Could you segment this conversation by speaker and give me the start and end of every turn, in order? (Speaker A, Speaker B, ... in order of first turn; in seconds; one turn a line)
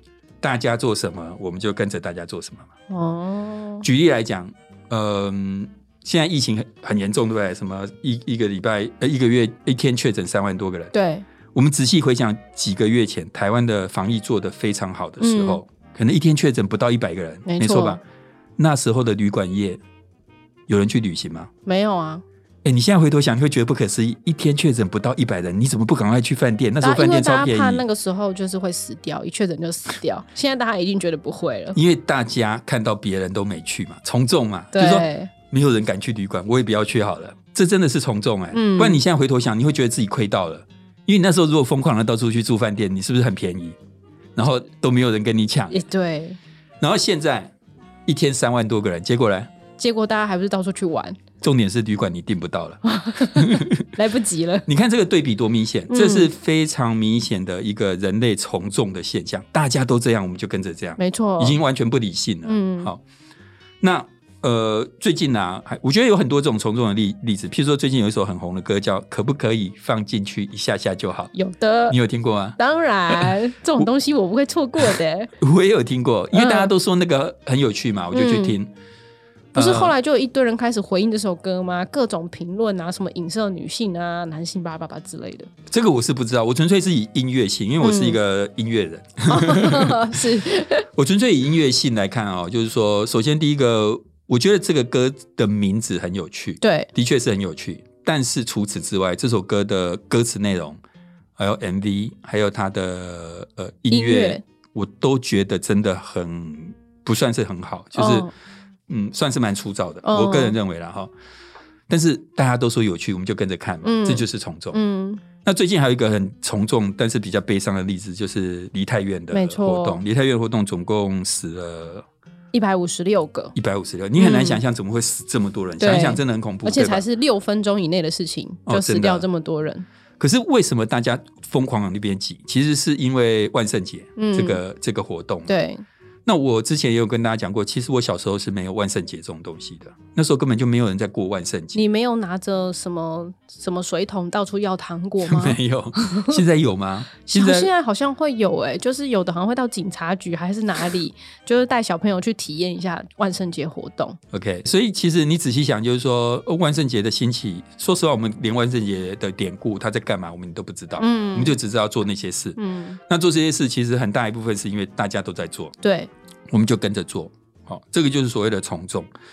Speaker A: 0.4-2.7
Speaker B: 2.9-3.9
Speaker A: 3.8-10.9
Speaker B: 10.9-11.2
Speaker A: 11.5-18.0
Speaker B: 15.2-15.6
Speaker B: 17.4-18.0
Speaker A: 18.6-19.8
Speaker A: 20.7-21.5
Speaker B: 21.6-22.2
Speaker A: 22.6-27.8
Speaker B: 26.8-31.8
Speaker A: 31.7-43.8
Speaker B: 34.7-35.3
Speaker B: 38.5-39.0
Speaker A: 44.3-45.8
Speaker B: 45.7-46.4
Speaker A: 46.8-47.5
Speaker A: 48.1-49.5
Speaker B: 49.8-51.2
Speaker A: 51.4-53.9
Speaker B: 52.9-54.7
Speaker A: 54.7-63.0
Speaker B: 55.9-56.3
Speaker B: 61.0-61.6
Speaker B: 62.4-62.9
Speaker A: 63.8-71.3
Speaker B: 71.3-72.0
Speaker A: 71.9-72.6
Speaker B: 72.6-75.3
Speaker A: 73.1-73.8
Speaker A: 74.8-78.7
Speaker B: 76.3-76.7
Speaker B: 78.1-78.6
Speaker A: 79.5-79.9
Speaker B: 79.5-85.5
Speaker A: 85.7-90.0
Speaker B: 87.8-88.2
Speaker B: 89.3-90.8
Speaker A: 90.9-100.8
Speaker B: 96.6-96.9
Speaker A: 101.4-108.3
Speaker B: 103.9-104.4
Speaker B: 107.9-108.3
Speaker A: 108.9-111.1
Speaker B: 110.0-110.6
Speaker A: 111.9-114.8
Speaker B: 113.8-115.2
Speaker A: 115.4-122.0
Speaker B: 119.3-120.0
Speaker B: 122.5-123.5
Speaker A: 123.5-127.0
Speaker B: 124.2-124.6
Speaker B: 125.8-129.8
Speaker A: 128.7-129.3
Speaker A: 130.2-135.5
Speaker B: 134.2-134.6
Speaker B: 135.5-135.8
Speaker A: 136.2-141.8
Speaker B: 141.7-146.3
Speaker A: 145.2-147.7
Speaker B: 147.3-154.2
Speaker A: 154.3-165.7
Speaker B: 161.0-161.6
Speaker B: 162.6-163.0
Speaker B: 165.8-166.1
Speaker A: 166.5-169.1